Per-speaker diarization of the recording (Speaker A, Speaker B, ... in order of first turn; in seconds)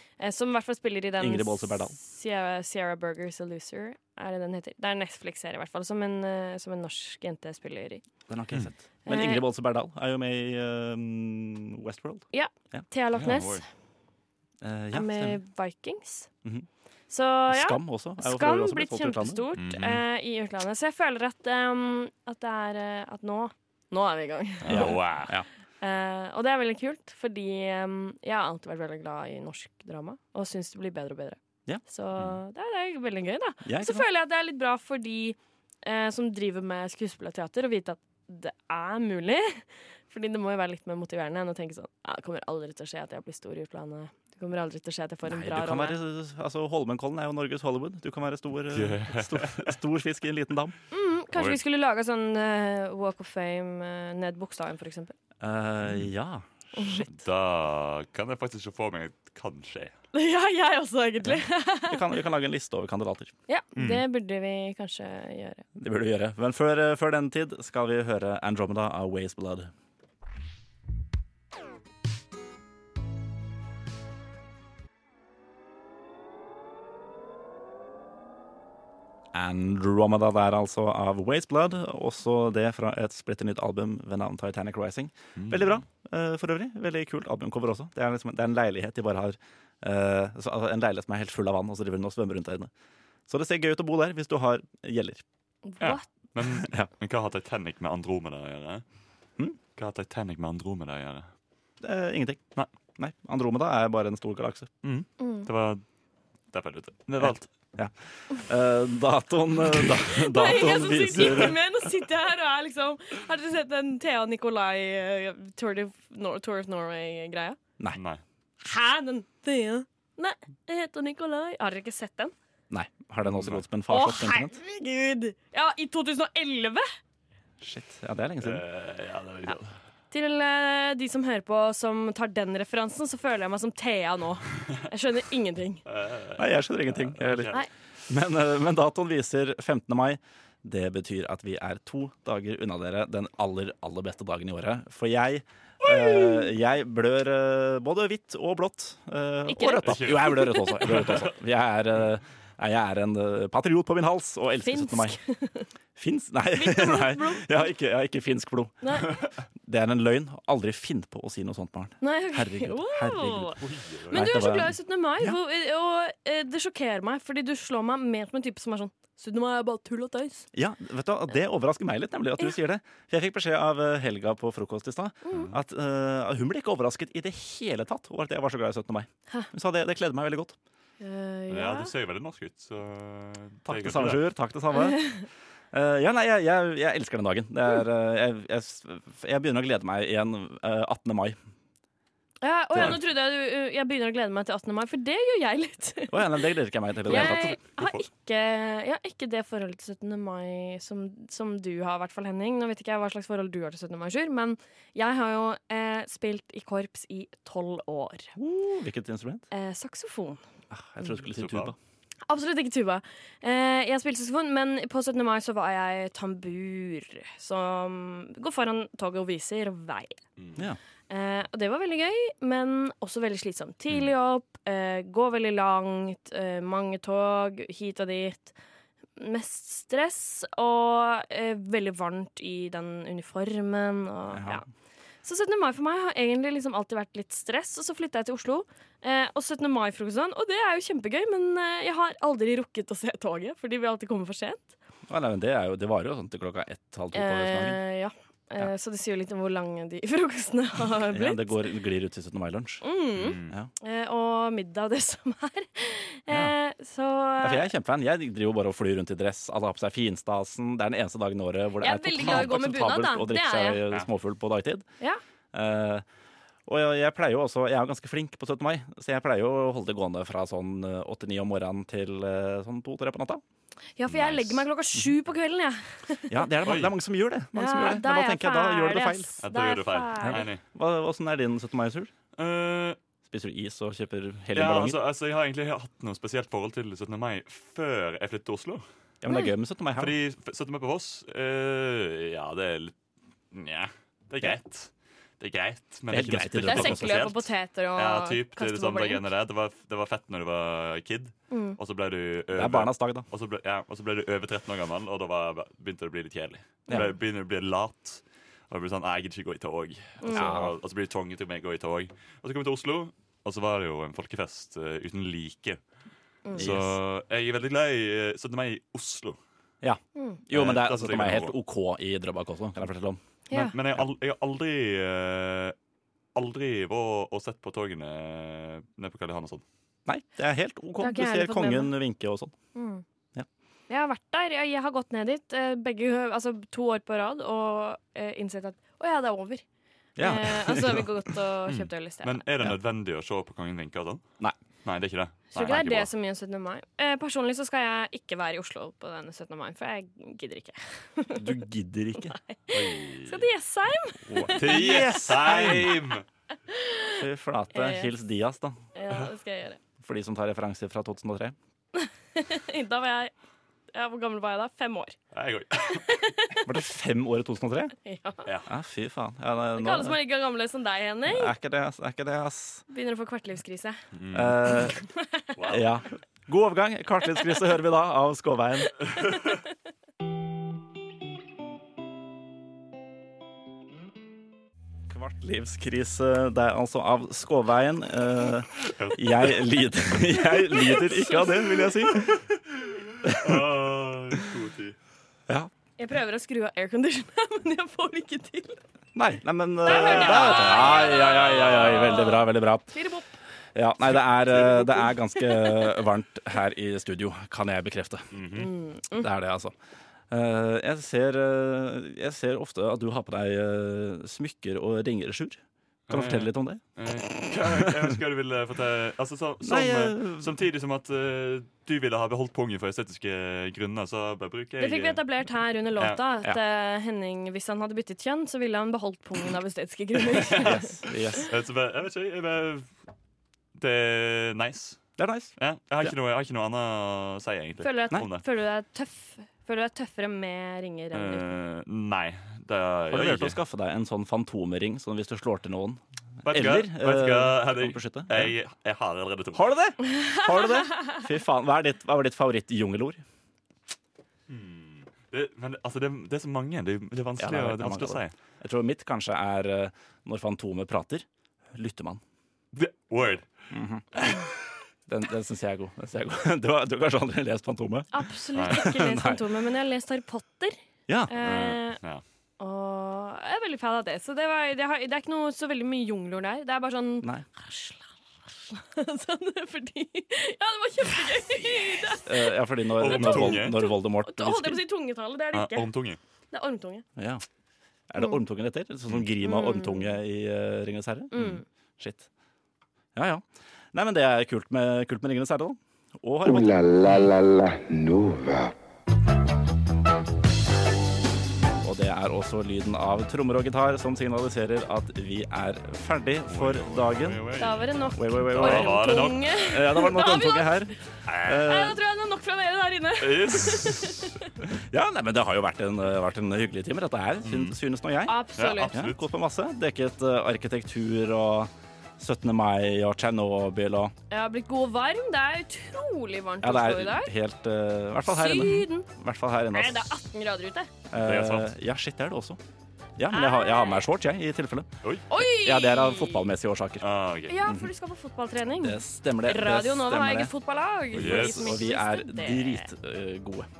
Speaker A: 0.2-8.0, 9.1-9.4, 12.3-13.7, 14.9-16.3, 17.1-25.1, 25.8-46.0, 50.9-55.1, 56.8-57.1, 60.1-62.0, 63.5-65.6, 95.7-96.1, 105.2-105.5, 110.1-117.6, 118.6-122.3, 123.9-126.9, 130.1-135.8, 145.8-146.5, 149.5-150.9, 154.6-155.7, 156.6-157.7, 158.8-159.2, 162.0-163.6, 164.1-170.5, 175.2-175.5, 181.0-181.9, 184.7-185.2, 192.4-196.5, 197.1-208.3, 209.5-210.4, 212.3-220.2, 221.1-228.6, 229.2-234.6, 235.2-244.7, 247.1-251.6, 252.8-257.7, 261.8-263.8, 274.0-276.5, 277.6-280.5, 289.3-289.5, 296.6-299.2, 301.5-301.8, 310.2-310.6, 323.5-323.8, 331.0-331.9, 332.8-333.0, 333.9-339.6, 340.2-342.4, 345.5-351.5, 352.2-355.1, 356.7-357.2, 357.7-358.1, 358.9-359.8, 362.0-363.3, 363.9-365.2, 365.9-366.6, 368.1-368.5, 369.8-371.5, 372.9-374.0, 374.9-375.5, 379.2-379.6, 390.5-392.1, 396.0-398.8, 399.9-403.3, 405.4-406.0, 408.6-409.3, 424.8-431.4, 437.8-441.5, 450.2-451.2, 468.1-470.8, 471.3-472.0, 472.6-485.9, 486.5-487.0, 489.4-490.1, 491.3-491.6, 507.6-510.9, 511.5-514.5, 518.3-518.9, 524.3-527.3, 528.3-529.1, 529.7-530.9, 533.3-534.1, 535.3-536.5, 537.5-542.9
Speaker B: 1.2-2.0, 8.3-12.9, 14.6-15.4, 17.5-19.4, 24.7-25.5, 33.6-34.1, 45.2-50.8, 55.4-57.1, 61.9-63.3, 65.8-69.7, 79.3-92.7, 93.3-95.2, 96.6-96.9, 101.8-102.4, 103.0-104.7, 107.2-111.6, 122.7-124.6, 127.6-128.6, 136.4-155.2, 156.0-158.9, 159.6-163.6, 164.1-165.4, 170.5-180.6, 183.7-185.1, 185.7-191.4, 196.1-197.6, 208.4-209.5, 210.7-211.8, 234.3-234.7, 245.1-247.8, 251.1-252.8, 257.4-264.9, 265.5-266.1, 266.7-273.4, 276.3-279.3, 280.2-282.1, 283.2-285.0, 289.2-290.2, 296.1-297.4, 302.5-303.2, 310.3-310.8, 316.6-317.0, 319.8-323.2, 330.1-332.5, 340.2-341.3, 351.4-352.4, 354.3-356.0, 357.2-358.8, 360.0-361.6, 366.6-367.9, 368.7-370.2, 371.3-372.8, 374.3-375.0, 375.7-379.1, 385.1-392.4, 393.2-393.7, 399.1-402.9, 403.8-408.4, 409.1-409.7, 410.3-416.8, 417.6-418.1, 419.6-420.5, 430.6-431.5, 435.2-436.1, 443.1-448.6, 449.5-453.2, 457.4-462.2, 463.7-464.3, 465.1-469.4, 471.1-471.3, 482.2-484.8, 487.2-487.4, 488.1-492.3, 493.2-496.8, 501.8-507.4, 508.1-512.0, 514.7-524.1, 526.6-530.1, 531.1-532.6, 533.2-537.1, 537.6-537.9, 538.8-540.5, 541.1-543.7
Speaker C: 13.2-13.6, 19.6-20.0, 24.6-25.3, 48.7-49.7, 57.1-60.0, 63.8-64.0, 85.4-85.8, 95.8-98.8, 99.8-101.3, 104.8-105.8, 106.5-107.5, 111.2-111.5, 118.0-118.2, 123.2-123.6, 128.4-129.8, 135.9-137.6, 149.8-151.3, 163.6-164.3, 181.5-184.3, 197.1-198.1, 211.3-211.7, 220.4-220.7, 253.2-253.6, 274.1-274.6, 276.6-277.0, 279.4-280.6, 282.4-283.0, 284.5-288.8, 289.9-292.9, 293.5-297.4, 297.9-315.8, 316.6-319.4, 320.5-321.5, 323.5-325.8, 326.4-329.6, 341.7-344.2, 344.9-346.1, 352.7-353.5, 354.6-356.2, 365.3-366.1, 374.1-374.9, 375.6-375.9, 388.8-389.6, 392.9-395.0, 400.1-402.4, 404.6-404.9, 408.3-408.7, 416.1-425.2, 430.3-430.8, 431.5-432.9, 433.8-435.0, 435.6-438.4, 441.1-443.6, 446.4-449.7, 454.5-458.4, 462.7-463.5, 468.6-468.9, 471.4-472.2, 483.0-483.8, 485.5-486.2, 506.5-509.5, 511.3-511.7, 513.2-514.2, 517.5-517.8, 518.6-519.2, 531.1-531.7, 537.0-537.6, 541.1-541.8
Speaker D: 496.4-498.8